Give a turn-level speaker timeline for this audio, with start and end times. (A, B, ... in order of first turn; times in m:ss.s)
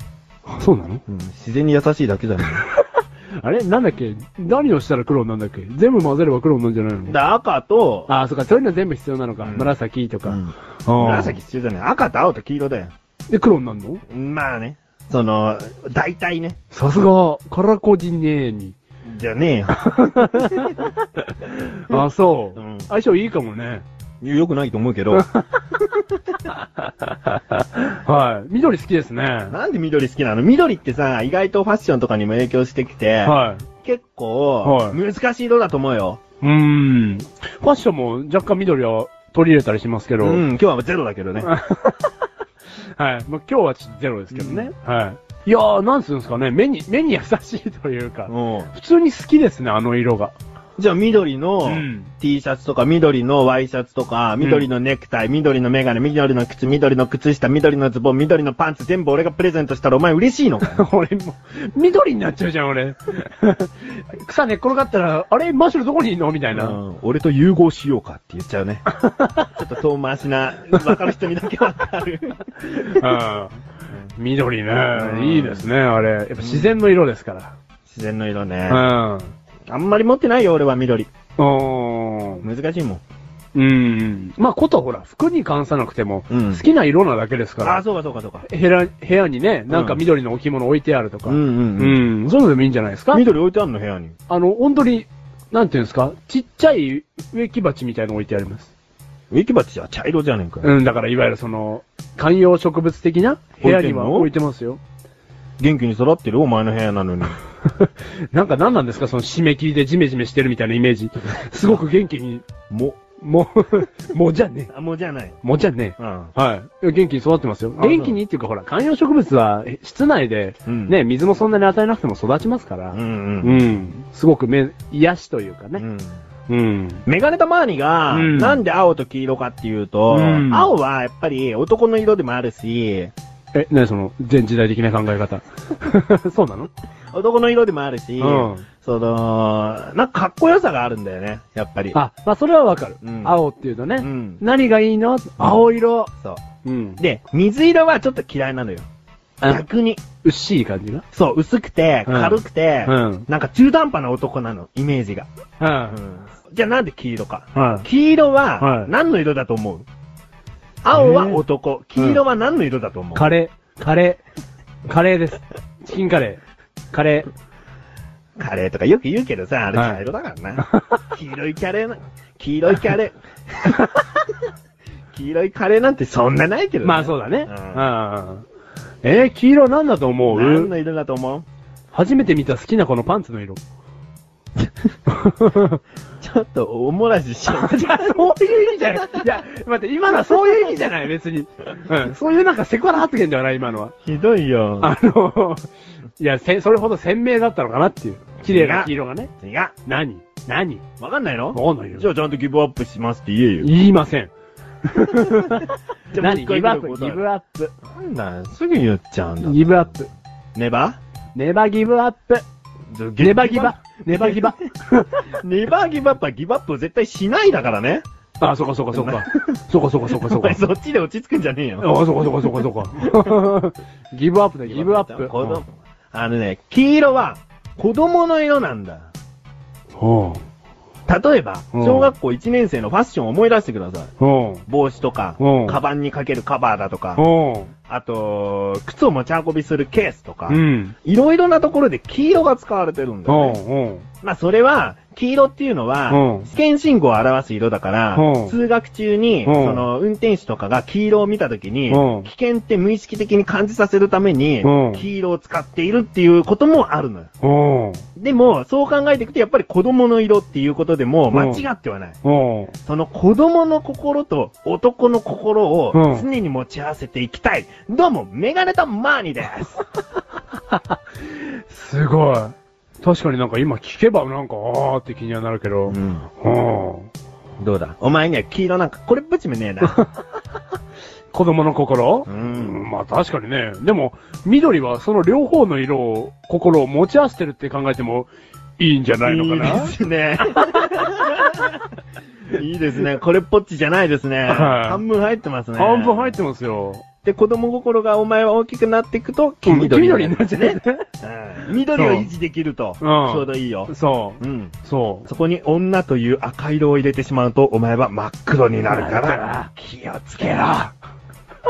0:00.5-0:01.0 A
0:01.1-0:02.7 B
0:03.4-0:07.2 A
0:07.1-0:08.1 B
0:08.1-0:11.4 A
0:09.4-0:12.9 B
0:13.3-0:14.0 A
0:14.1-0:16.6 B
0:16.7-0:18.8 A
0:19.0-0:20.9 B
0:19.8-0:23.8 A
0:22.6-0:22.9 B
0:24.2-0:25.3 B
0:25.2-0:25.8 A
0:26.3-0:29.6 A
0:29.5-0:36.2 B
0:33.2-0:33.6 A
0:34.6-0:35.0 A
0:36.4-0:40.4 A
0:40.2-0:41.5 B
0:41.4-0:42.1 A
0:42.9-0:50.3 A
0:44.3-0:44.7 B
0:48.3-0:48.7 B
0:50.8-1:00.8 B
0:51.6-0:52.1 A
0:54.4-0:54.7 A
1:00.6-1:06.8 A
1:06.5-1:08.8 B
1:09.0-1:09.4 A
1:09.5-1:13.1 B
1:12.8-1:17.6 A
1:14.8-1:15.7 B
1:16.4-1:16.8 B
1:17.9-1:18.9 B
1:18.7-1:19.3 A
1:19.7-1:21.1 B
1:21.4-1:22.4 A
1:22.4-1:23.0 B
1:23.5-1:27.8 A
1:26.3-1:26.6 B
1:27.6-1:28.4 B
1:28.4-1:33.2 A
1:29.7-1:30.0 B
1:31.2-1:32.0 B
1:33.1-1:34.2 B
1:34.3-1:38.7 A
1:39.3-1:40.7 B
1:40.6-1:44.8 A
1:43.6-1:44.3 B
1:45.6-1:47.4 B
1:47.8-1:52.5 A
1:52.7-1:53.0 B
1:53.2-1:54.7 A
1:54.7-1:55.4 B
1:55.4-2:05.8 A
1:56.0-1:56.3 B
1:57.8-1:58.2 B
2:00.6-2:01.0 B
2:02.9-2:03.8 B
2:05.8-2:06.2 B
2:06.5-2:07.0 A
2:07.1-2:13.1 B
2:08.1-2:08.6 A
2:10.1-2:10.7 A
2:13.5-2:16.7 A
2:17.1-2:22.0 B
2:18.2-2:18.6 A
2:21.9-2:26.1 A
2:23.0-2:23.4 B
2:24.0-2:24.4 B
2:26.6-2:27.0 A
2:27.0-2:28.9 B
2:29.4-2:30.0 B
2:30.2-2:31.0 A
2:31.1-2:35.3 B
2:32.1-2:33.2 A
2:35.6-2:36.0 A
2:35.9-2:39.9 B
2:37.5-2:37.9 A
2:38.6-2:38.9 A
2:40.8-2:43.2 B
2:40.9-2:41.4 A
2:43.1-2:44.2 A
2:44.9-2:46.4 A
2:46.9-2:47.3 A
2:48.4-2:53.9 B
2:49.8-2:50.0 A
2:50.6-2:51.0 A
2:55.1-2:57.9 B
2:56.8-2:58.4 A
2:59.0-3:00.7 A
3:00.3-3:01.4 B
3:01.9-3:03.6 A
3:05.1-3:05.8 A
3:06.2-3:09.4 B
3:07.5-3:13.9 A
3:14.0-3:14.9 B
3:14.8-3:15.6 A
3:16.2-3:19.3 A
3:18.4-3:19.7 B
3:19.8-3:20.8 A
3:21.0-3:23.7 B
3:21.5-3:22.1 A
3:23.6-3:24.3 A
3:24.9-3:27.7 A
3:25.1-3:27.2 B
3:27.9-3:29.9 B
3:29.4-3:30.1 A
3:30.6-3:31.0 B
3:31.3-3:32.4 A
3:32.9-3:34.6 B
3:33.2-3:35.2 A
3:35.4-3:38.0 B
3:38.4-3:40.6 A
3:38.9-3:39.6 B
3:40.1-3:43.4 B
3:41.8-3:45.6 A
3:44.7-3:49.1 B
3:50.0-3:50.4 A
3:51.1-3:54.1 B
3:51.7-3:52.1 A
3:54.2-3:54.6 A
3:54.7-3:57.2 B
3:55.4-3:55.8 A
3:57.2-3:57.7 A
3:57.9-4:03.6 B
4:00.5-4:00.9 A
4:03.3-4:04.1 A
4:04.2-4:17.3 B
4:06.1-4:06.5 A
4:08.1-4:08.6 A
4:09.4-4:09.8 A
4:11.9-4:12.3 A
4:14.6-4:15.0 A
4:17.4-4:18.0 A
4:18.2-4:22.2 B
4:21.3-4:21.6 A
4:22.2-4:22.7 A
4:22.8-4:29.8 B
4:25.9-4:26.2 A
4:30.7-4:37.1 A
4:35.9-4:36.2 B
4:37.6-4:40.0 B
4:41.3-4:49.9 A
4:42.3-4:42.8 B
4:49.2-4:51.8 B
4:52.5-4:56.4 B
4:54.5-4:55.0 A
4:55.8-4:57.0 A
4:57.2-5:04.7 B
4:59.6-5:01.0 A
5:01.9-5:02.3 A
5:03.0-5:05.3 A
5:05.3-5:10.9 B
5:08.9-5:09.7 A
5:10.4-5:10.8 A